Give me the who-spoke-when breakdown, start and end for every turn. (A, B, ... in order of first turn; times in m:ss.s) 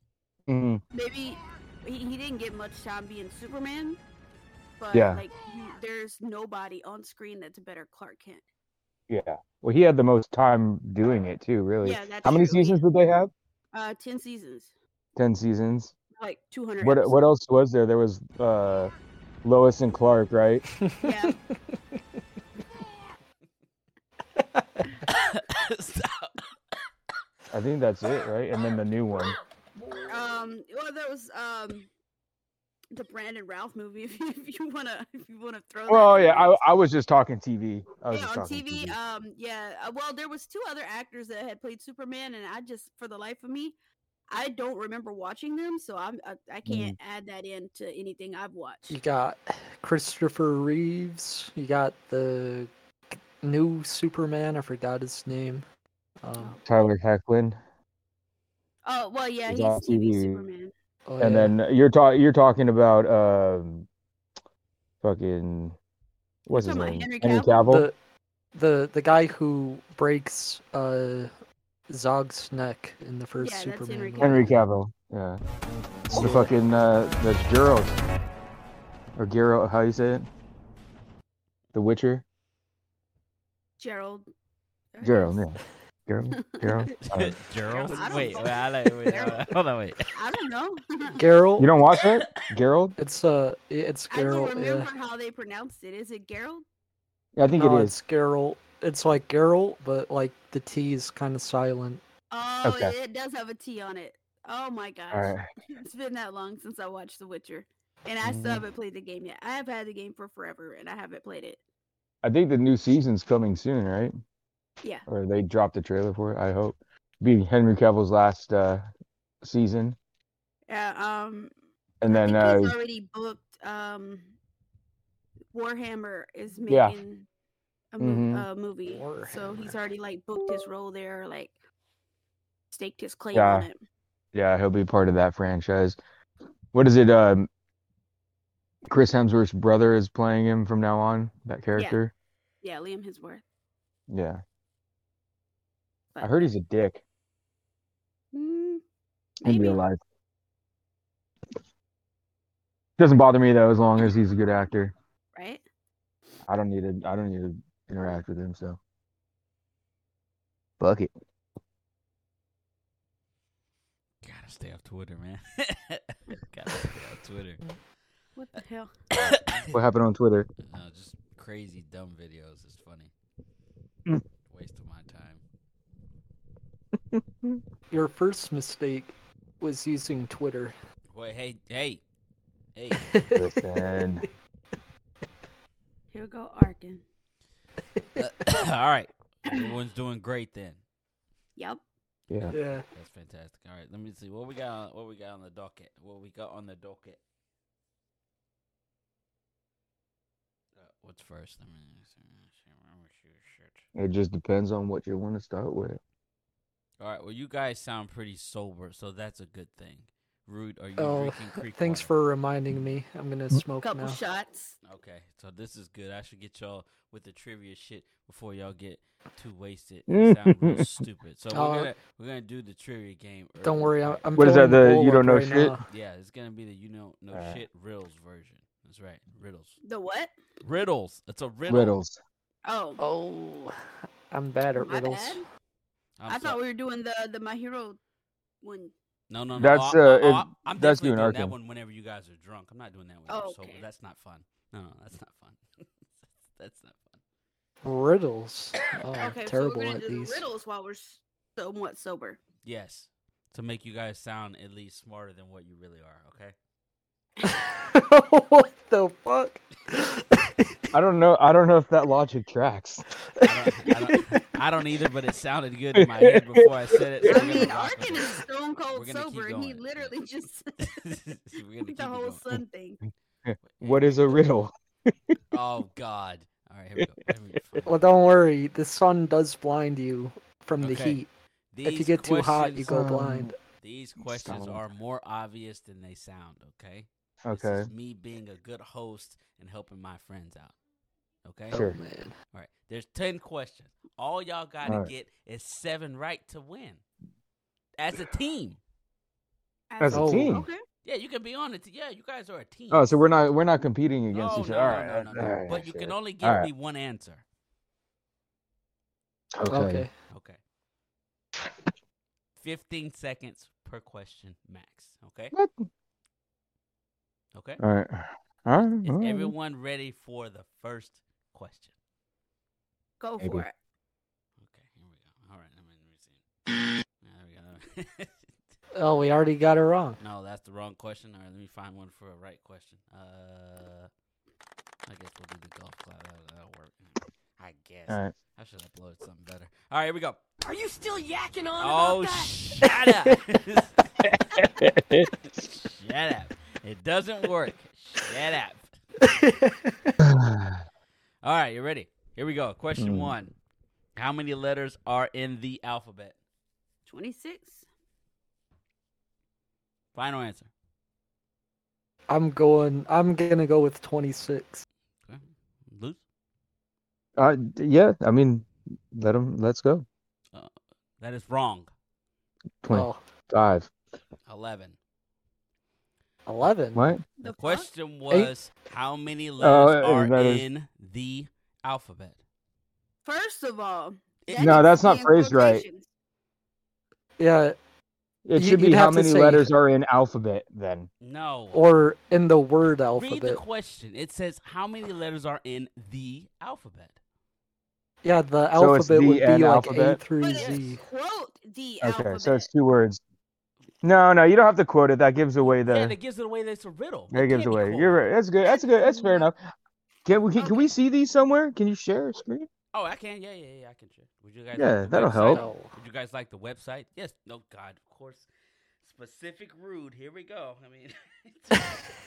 0:00.5-0:00.8 A
0:00.9-0:04.0 B
0:04.8-0:08.4 B
0:04.9-0:05.2 A
0:09.1-0:13.3 A
0:11.8-0:12.8 B
0:13.7-0:14.7 B
0:15.2-0:15.9 A
0:16.2-0:17.2 B
0:16.8-0:18.9 A
0:19.4-0:20.6 A
0:20.8-0:21.3 C
0:21.0-0:21.4 B
0:24.4-0:25.0 C
0:25.1-0:26.4 D
0:27.5-0:29.4 A
0:30.1-0:31.9 B
0:32.9-0:36.6 B
0:35.9-0:39.0 A
0:38.1-0:43.7 B
0:44.3-0:49.0 B
0:46.6-0:46.9 A
0:48.9-0:52.7 C
0:53.4-0:55.6 C
0:56.2-0:56.6 C
0:56.6-0:57.6 A
0:58.8-1:00.7 B
0:59.5-1:00.4 A
1:01.1-1:01.5 C
1:01.2-1:03.9 A
1:05.0-1:05.8 A
1:06.4-1:07.9 A
1:06.5-1:07.6 B
1:07.7-1:08.0 C
1:08.5-1:11.3 C
1:11.9-1:14.6 C
1:13.4-1:14.5 B
1:14.2-1:15.4 A
1:16.1-1:18.0 A
1:16.1-1:16.5 C
1:19.2-1:20.3 A
1:21.7-1:22.2 A
1:23.8-1:24.2 B
1:24.9-1:25.4 B
1:25.0-1:27.4 A
1:26.4-1:26.7 B
1:27.0-1:30.1 D
1:27.7-1:29.4 B
1:27.9-1:28.5 C
1:30.1-1:31.2 B
1:31.1-1:31.7 C
1:31.6-1:33.0 A
1:33.0-1:34.9 C
1:34.1-1:36.6 B
1:37.4-1:38.0 A
1:37.6-1:42.0 C
1:42.3-1:51.6 B
1:42.6-1:42.9 A
1:45.1-1:45.4 A
1:48.2-1:48.6 A
1:52.2-1:54.1 A
1:55.1-1:58.8 A
1:59.4-2:00.0 A
2:00.7-2:01.5 B
2:02.0-2:02.8 A
2:02.1-2:04.3 B
2:05.5-2:07.3 B
2:06.7-2:07.0 A
2:07.9-2:11.5 B
2:08.0-2:08.4 A
2:08.8-2:09.7 C
2:12.7-2:13.8 B
2:13.3-2:13.7 A
2:14.3-2:16.0 A
2:16.7-2:17.5 A
2:18.8-2:22.1 A
2:22.6-2:23.4 B
2:24.1-2:24.4 A
2:26.1-2:26.5 B
2:26.2-2:27.0 A
2:28.3-2:28.8 B
2:29.4-2:29.8 B
2:29.4-2:30.0 A
2:33.0-2:34.9 A
2:35.3-2:35.6 B
2:36.5-2:38.8 A
2:40.8-2:41.1 A
2:44.2-2:47.6 D
2:48.4-2:48.9 B
2:49.1-2:49.7 D
2:49.7-2:50.5 A
2:50.6-2:53.1 D
2:54.5-2:55.4 D
2:57.1-2:57.6 A
2:57.9-3:00.7 C
3:01.1-3:02.0 D
3:02.7-3:03.1 D
3:03.1-3:03.5 C
3:03.3-3:04.2 A
3:06.1-3:07.0 B
3:08.2-3:10.8 D
3:11.6-3:11.8 B
3:12.3-3:12.6 A
3:12.5-3:12.8 C
3:12.9-3:17.2 D
3:20.8-3:23.8 D
3:23.9-3:26.0 A
3:27.0-3:32.1 D
3:31.0-3:34.2 C
3:33.8-3:34.8 B
3:34.8-3:44.5 D
3:40.1-3:40.9 A
3:41.5-3:41.9 C
3:43.6-3:45.8 C
3:44.4-3:45.7 A
3:45.9-3:49.8 D
3:47.3-3:47.6 A
3:49.8-3:50.3 B
3:50.6-3:52.0 D
3:51.7-3:52.2 A
3:52.6-3:53.0 B
3:53.0-3:53.7 C
3:54.3-3:55.4 C
3:54.8-3:55.4 B
3:56.2-3:56.6 D
3:56.3-3:58.0 B
3:58.6-3:58.9 B
3:59.3-4:05.6 D
3:59.6-4:01.5 A
4:03.3-4:03.8 B
4:06.4-4:07.2 D
4:07.8-4:10.4 C
4:09.2-4:12.4 B
4:12.6-4:16.5 D
4:17.4-4:20.5 C
4:20.9-4:23.0 A
4:23.4-4:24.4 C
4:23.4-4:30.1 D
4:26.0-4:27.7 A
4:27.2-4:31.0 B
4:30.8-4:32.4 D
4:31.8-4:33.0 B
4:33.4-4:35.4 A
4:33.6-4:34.4 D
4:35.5-4:38.0 D
4:37.8-4:41.3 C
4:40.8-4:41.2 D
4:41.7-4:42.9 D
4:41.8-4:43.5 C
4:42.8-4:43.5 A
4:43.8-4:50.7 D
4:44.2-4:44.8 A
4:47.4-4:47.9 A
4:51.4-4:51.8 D
4:51.7-4:52.3 C
4:51.7-4:52.0 A
4:52.5-4:57.0 D
4:54.8-4:55.1 A
4:58.0-4:58.8 D
4:59.9-5:00.8 B
5:00.0-5:00.7 A
5:00.1-5:00.6 C
5:01.0-5:03.4 D
5:02.9-5:06.7 A
5:04.3-5:07.4 D
5:09.6-5:10.0 A
5:09.7-5:10.1 C
5:10.3-5:10.6 D
5:12.6-5:15.5 D
5:15.5-5:15.9 A
5:17.5-5:17.8 D
5:17.8-5:19.5 A
5:19.0-5:21.9 D
5:23.2-5:23.7 B
5:24.6-5:26.4 D
5:27.2-5:28.5 D
5:29.0-5:30.2 C
5:30.2-5:34.1 D
5:35.0-5:40.4 D
5:38.1-5:38.3 A
5:40.6-5:42.6 E
5:41.8-5:44.2 D
5:44.2-5:45.3 A
5:45.5-5:48.9 D
5:49.2-5:50.1 C
5:50.2-5:50.8 A
5:51.4-5:53.5 D
5:53.0-5:53.3 A
5:54.2-5:56.4 D
5:57.0-5:57.8 B
6:00.1-6:00.7 D
6:02.3-6:04.8 C
6:05.2-6:06.2 D
6:07.4-6:10.0 A
6:10.5-6:11.9 D
6:12.8-6:13.9 A
6:12.9-6:13.2 C
6:14.5-6:15.0 D
6:16.4-6:17.1 C
6:16.9-6:17.2 A
6:17.4-6:17.9 B
6:17.4-6:22.4 D
6:19.6-6:20.6 A
6:23.2-6:26.1 B
6:24.4-6:24.9 D
6:24.6-6:25.8 A
6:27.4-6:27.8 C
6:28.4-6:31.1 A
6:28.6-6:29.7 C
6:31.2-6:31.8 D
6:31.7-6:33.6 C
6:33.2-6:37.2 D
6:38.2-6:41.0 C
6:38.7-6:40.2 A
6:40.4-6:42.7 B
6:42.0-6:43.2 A
6:44.0-6:46.1 A
6:45.6-6:48.2 D
6:47.3-6:49.6 A
6:48.6-6:49.5 B
6:50.2-6:52.7 A
6:50.6-6:50.9 B
6:52.9-6:58.5 D
6:54.8-6:55.6 A
6:55.4-6:55.9 C
6:59.0-7:02.1 D